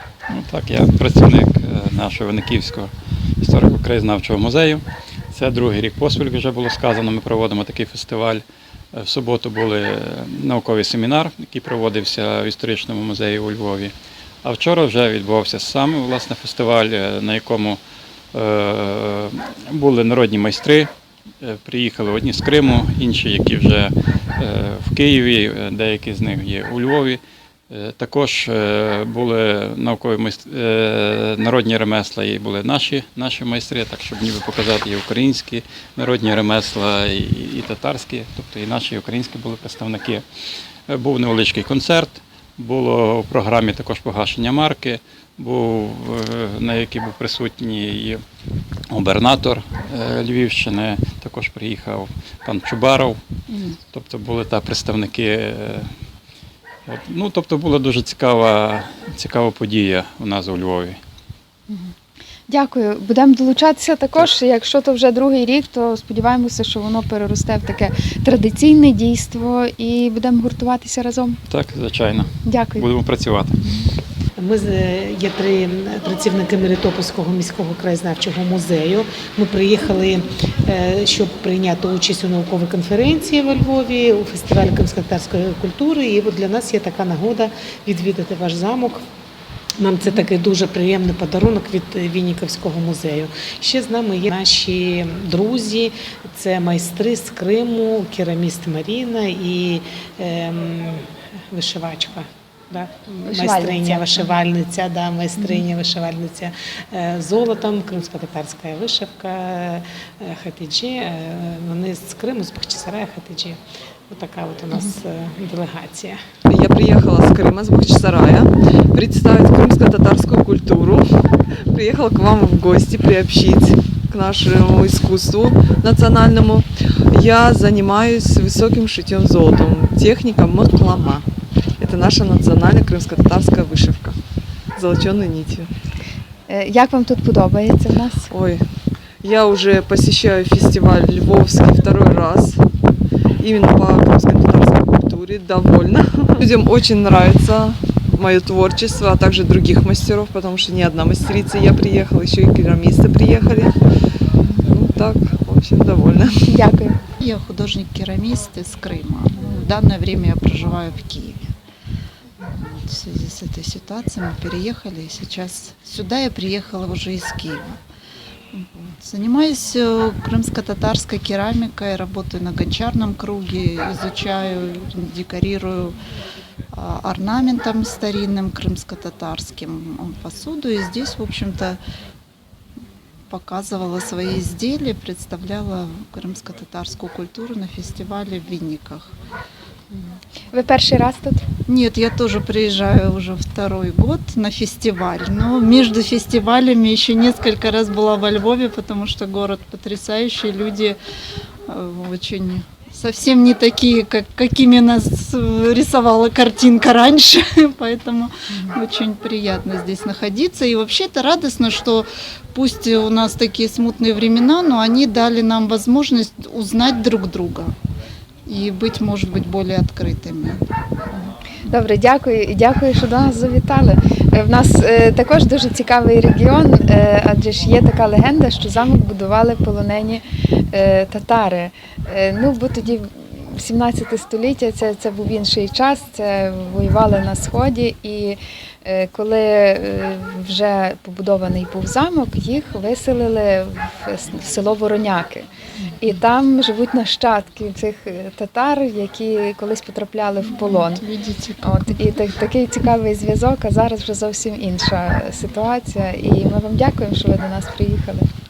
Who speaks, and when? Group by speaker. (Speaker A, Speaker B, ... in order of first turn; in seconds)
Speaker A: 0.3-8.4, 8.9-13.9, 14.4-17.8, 18.3-20.9, 21.4-40.2, 40.9-48.2, 48.9-53.2, 53.9-55.9, 56.9-61.0, 71.5-73.6
Speaker B: 62.5-71.4, 72.4-72.9, 103.1-104.3, 105.4-105.6, 136.5-138.3, 156.4-157.0, 189.9-191.4, 221.2-245.5, 246.0-251.1, 251.6-258.3
Speaker C: 74.4-89.0, 89.8-116.2
Speaker D: 116.5-131.2, 131.8-134.2, 134.8-135.7, 138.3-138.7, 139.2-142.6, 143.4-153.8, 154.7-156.5
Speaker E: 157.2-161.5, 162.4-167.8, 168.5-176.0, 176.7-181.8, 183.3-189.1, 191.7-201.0, 201.7-217.8, 218.4-220.6, 250.6-252.2